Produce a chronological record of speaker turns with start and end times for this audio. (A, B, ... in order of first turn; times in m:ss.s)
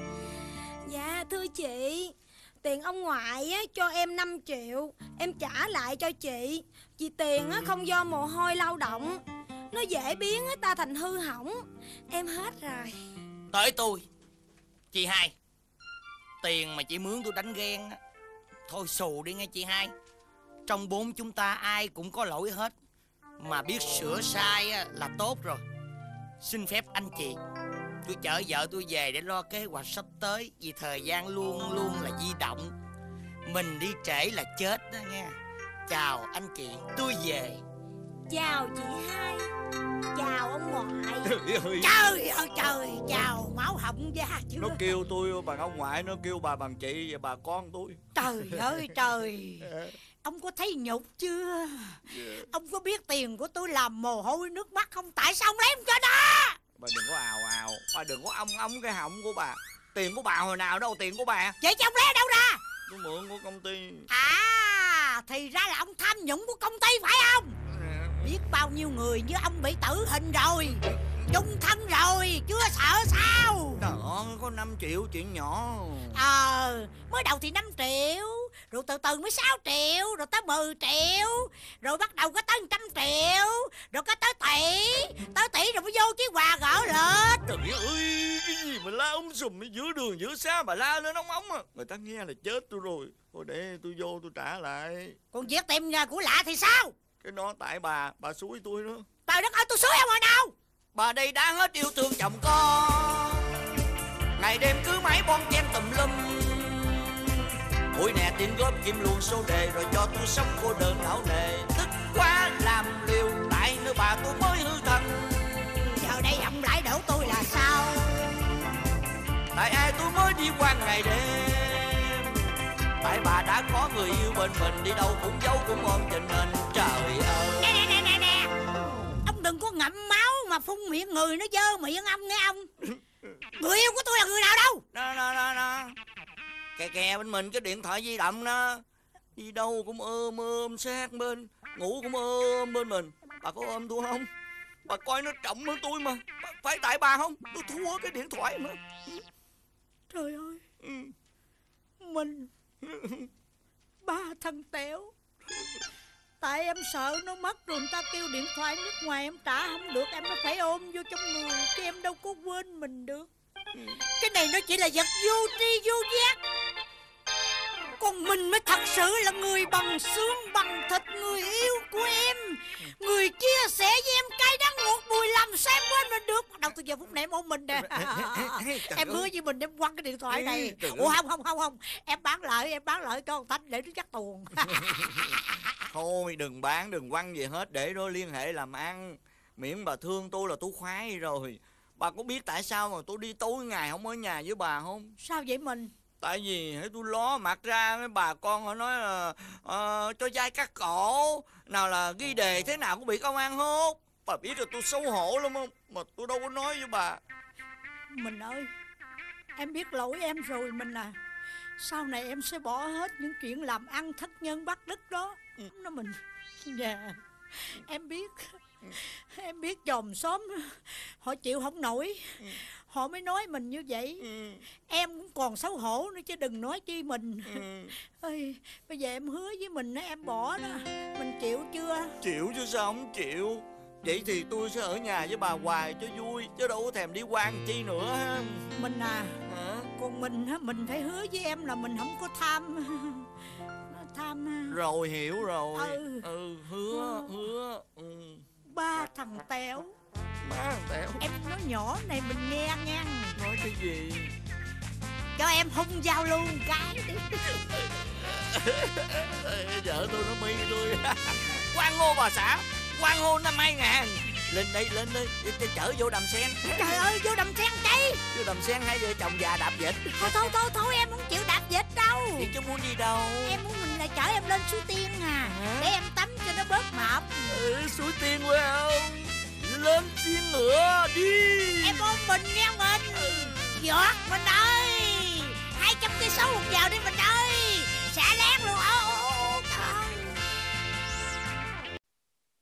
0:00.8-0:13.0 A
0:13.5-0:14.1 B
0:14.9-0:15.4 B
0:16.4-0:18.0 B
0:18.7-0:19.9 B
0:20.7-0:22.8 B
0:23.4-0:25.6 B
0:26.4-0:27.4 B
0:28.0-0:32.7 B
0:33.4-0:35.4 B
0:35.9-0:37.6 B
0:38.3-0:39.5 A
0:40.2-0:41.1 C
0:40.2-0:41.1 A
0:41.2-0:41.9 D
0:41.8-0:44.9 C
0:44.6-0:48.6 D
0:48.2-0:49.7 C
0:49.7-0:50.0 D
0:50.2-0:56.6 C
0:52.1-0:52.5 D
0:56.8-1:01.6 D
1:01.6-1:02.6 C
1:02.9-1:04.1 D
1:04.1-1:07.6 C
1:07.7-1:08.3 D
1:08.2-1:13.8 C
1:10.9-1:11.1 D
1:13.8-1:16.2 D
1:16.1-1:27.4 C
1:27.5-1:35.2 D
1:35.3-1:36.9 C
1:37.2-1:39.0 D
1:39.3-1:40.5 C
1:40.9-1:43.4 D
1:44.4-1:47.2 D
1:47.9-1:55.9 D
1:56.0-1:58.3 C
1:59.5-2:02.4 D
2:03.0-2:07.8 D
2:07.6-2:08.5 C
2:09.2-2:12.7 C
2:13.6-2:14.8 C
2:14.9-2:16.0 D
2:16.8-2:18.8 D
2:19.4-2:24.3 D
2:24.9-2:29.2 D
2:30.1-2:30.6 C
2:30.8-2:31.1 D
2:32.0-2:32.5 C
2:32.8-2:33.3 D
2:34.0-2:35.1 C
2:36.4-2:43.3 C
2:44.2-2:46.4 C
2:48.0-3:05.0 C
2:57.8-2:59.3 D
3:00.3-3:01.2 D
3:04.8-3:05.2 D
3:05.9-3:15.1 D
3:15.2-3:15.9 C
3:16.2-3:27.2 D
3:28.1-3:28.7 C
3:29.6-3:31.2 C
3:31.8-3:44.2 C
3:44.2-3:44.6 D
3:44.9-3:52.1 C
3:47.5-3:47.9 D
3:52.2-3:58.7 D
3:58.8-3:59.4 C
3:59.5-3:59.9 D
4:00.0-4:03.3 C
4:03.9-4:04.8 C
4:04.7-4:08.4 D
4:05.7-4:06.3 C
4:06.9-4:07.4 C
4:08.7-4:09.9 C
4:10.4-4:11.2 D
4:11.2-4:13.4 C
4:13.4-4:14.3 D
4:15.4-4:17.5 C
4:17.8-4:27.0 D
4:26.7-4:28.2 C
4:28.3-4:30.4 D
4:30.1-4:32.5 C
4:32.4-4:33.6 D
4:33.4-4:37.6 C
4:35.5-4:35.9 D
4:37.5-4:42.2 D
4:41.8-4:50.4 C
4:43.1-4:43.7 D